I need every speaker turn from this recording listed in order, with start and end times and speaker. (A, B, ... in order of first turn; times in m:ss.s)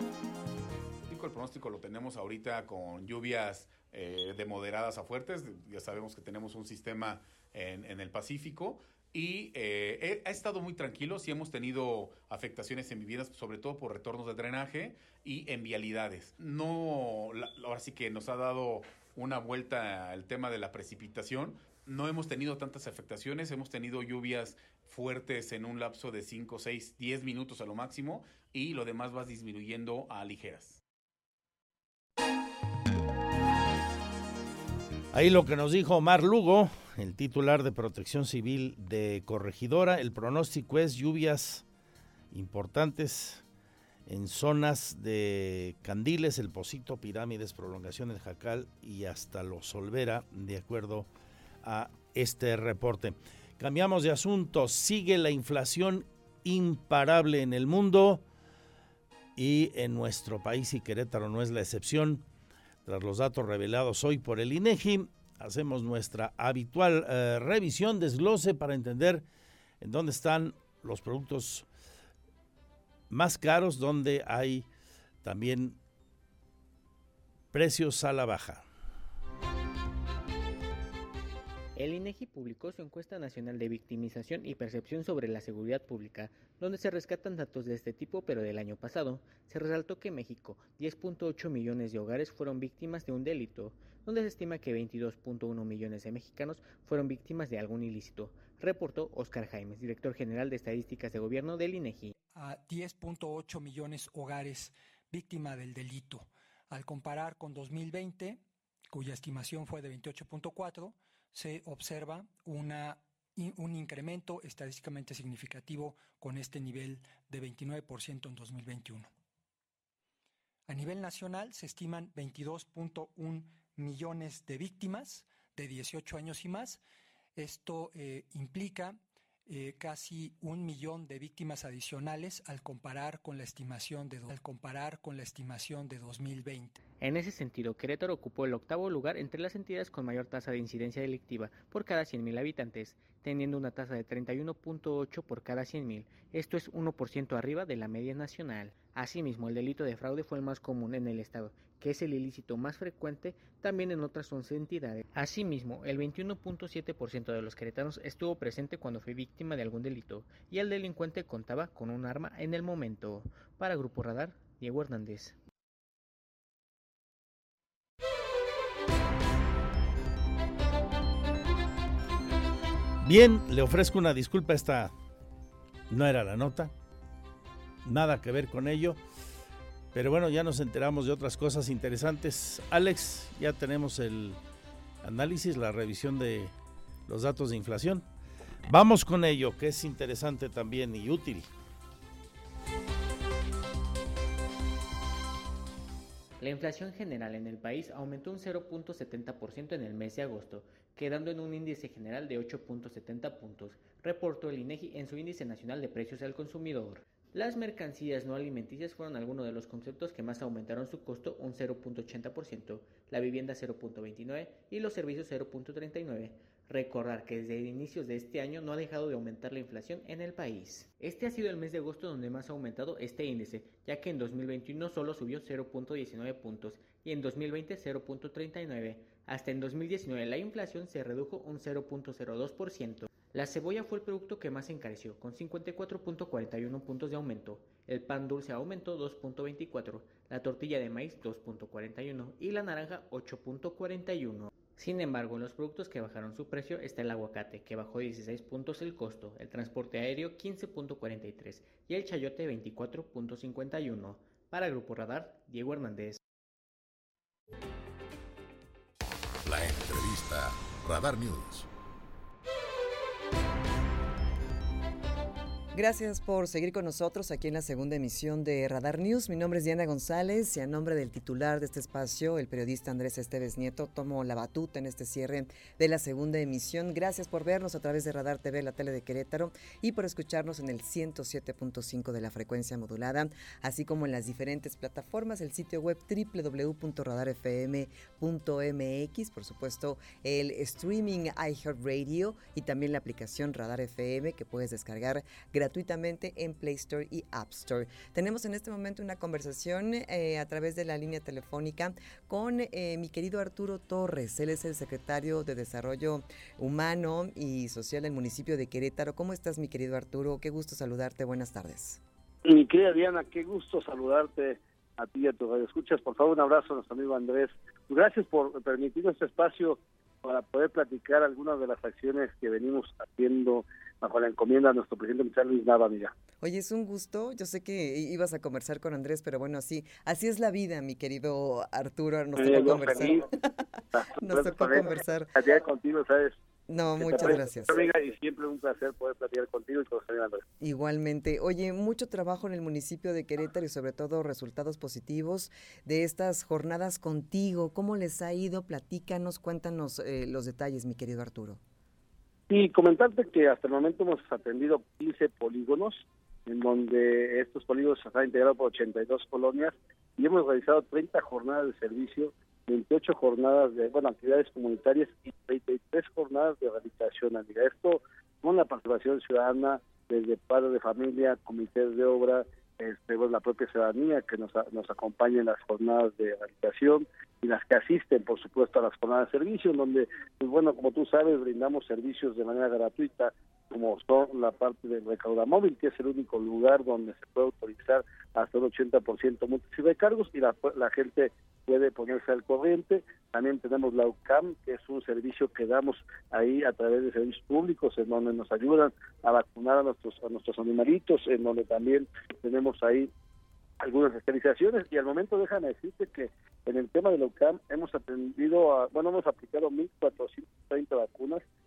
0:01.1-0:30.8 A
0:35.1-0:41.6 B
0:42.3-0:43.4 B
0:44.1-0:51.1 B
0:51.6-0:58.2 B
0:59.4-1:02.2 B
1:02.9-1:09.2 B
1:09.8-1:11.7 B
1:13.1-1:14.7 B
1:15.2-1:15.8 B
1:17.5-1:18.7 B
1:21.8-1:42.1 C
1:42.3-1:48.4 D
1:48.9-1:59.1 D
2:00.7-2:06.8 D
2:07.4-2:09.0 D
2:09.5-2:16.8 D
2:17.0-2:45.4 C
2:53.0-2:54.9 B
2:55.9-2:56.7 B
2:57.8-2:59.0 B
2:59.9-3:04.4 B
3:05.0-3:06.5 B
3:07.1-3:08.0 B
3:08.7-3:11.5 B
3:16.4-4:16.2 C
4:19.4-4:21.7 E
4:25.7-5:12.0 F
5:12.4-5:26.2 G
5:26.4-5:33.4 F
5:32.4-5:33.3 G
5:33.9-5:36.4 G
5:34.2-5:35.3 F
5:36.7-5:37.8 F
5:37.0-5:40.4 G
5:40.6-5:51.6 F
5:52.5-6:43.1 G
6:43.8-6:51.4 G